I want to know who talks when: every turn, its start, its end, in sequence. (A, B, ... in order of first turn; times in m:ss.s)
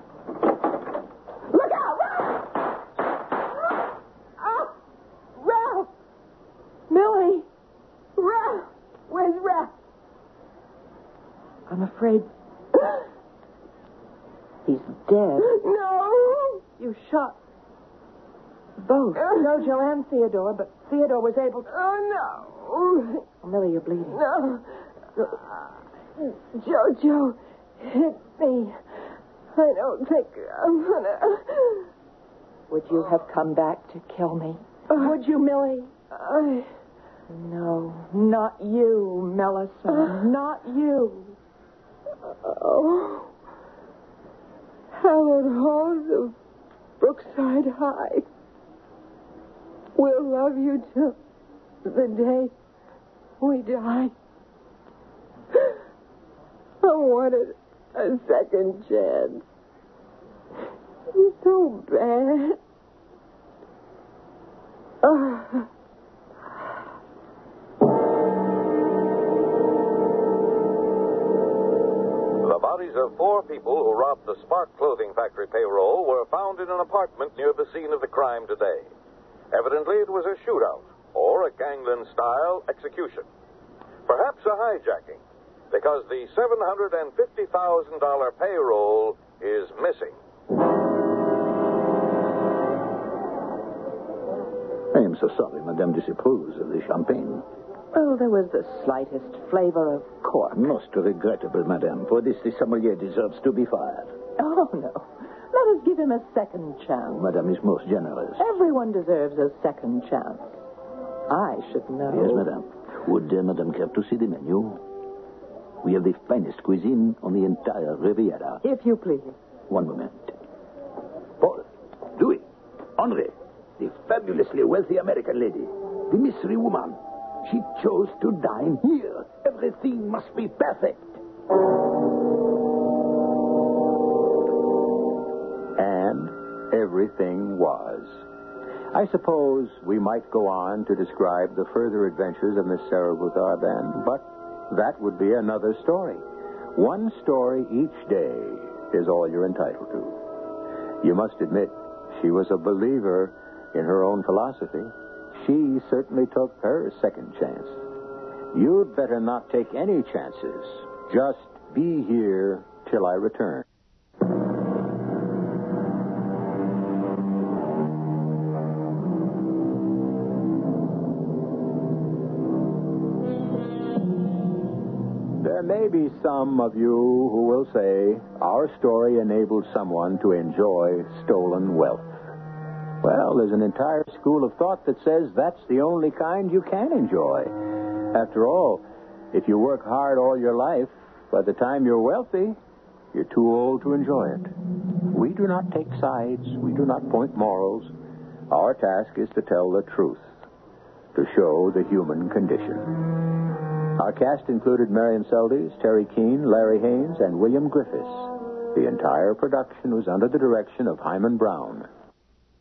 0:01.5-0:02.4 A
0:04.4-0:04.7 A
0:05.4-0:05.9 A
0:06.9-0:07.4 A
0:07.1-0:07.4 B
0:08.2-0:09.7 A
0:11.7-0:12.3 B
0:14.7-0:15.6 B
0:15.4-0:16.6 A
0:16.8-0:17.4 B
0:18.8-0:21.7 B
0:21.7-0:23.2 A
0:23.4-0:24.2 B
0:24.2-0:24.6 A
0:25.2-0:25.4 A
0:26.2-0:28.8 A
0:29.5-0:31.9 A
0:32.7-0:35.9 B
0:36.1-0:36.7 A
0:37.3-0:41.4 B
0:39.9-0:40.2 A
0:42.2-0:43.3 A
0:44.9-0:46.3 A
0:47.0-0:48.3 A
0:50.0-0:51.2 A
0:51.8-0:52.5 A
0:53.4-0:54.1 A
0:56.8-0:59.4 A
1:01.1-1:02.6 A
1:05.0-1:05.7 A
1:12.4-1:18.9 C
1:19.5-1:23.3 C
1:24.1-1:25.2 C
1:25.7-1:30.2 C
1:34.9-1:37.4 D
1:37.9-1:40.7 B
1:40.5-1:44.1 D
1:44.4-1:47.3 B
1:47.1-1:48.4 D
1:48.4-1:50.6 B
1:51.3-1:52.4 B
1:52.1-1:54.8 D
1:55.8-1:58.6 D
1:58.6-1:59.4 B
1:59.7-2:00.3 D
2:01.4-2:02.4 D
2:03.0-2:11.1 D
2:15.8-2:18.2 E
2:18.9-2:30.2 E
2:31.0-2:37.8 E
2:38.5-2:43.7 E
2:55.4-3:02.1 E
3:03.0-3:12.6 E
3:13.1-3:14.5 E
3:15.1-3:17.9 E
3:18.5-3:20.3 E
3:21.1-3:23.0 E
3:24.0-3:31.9 E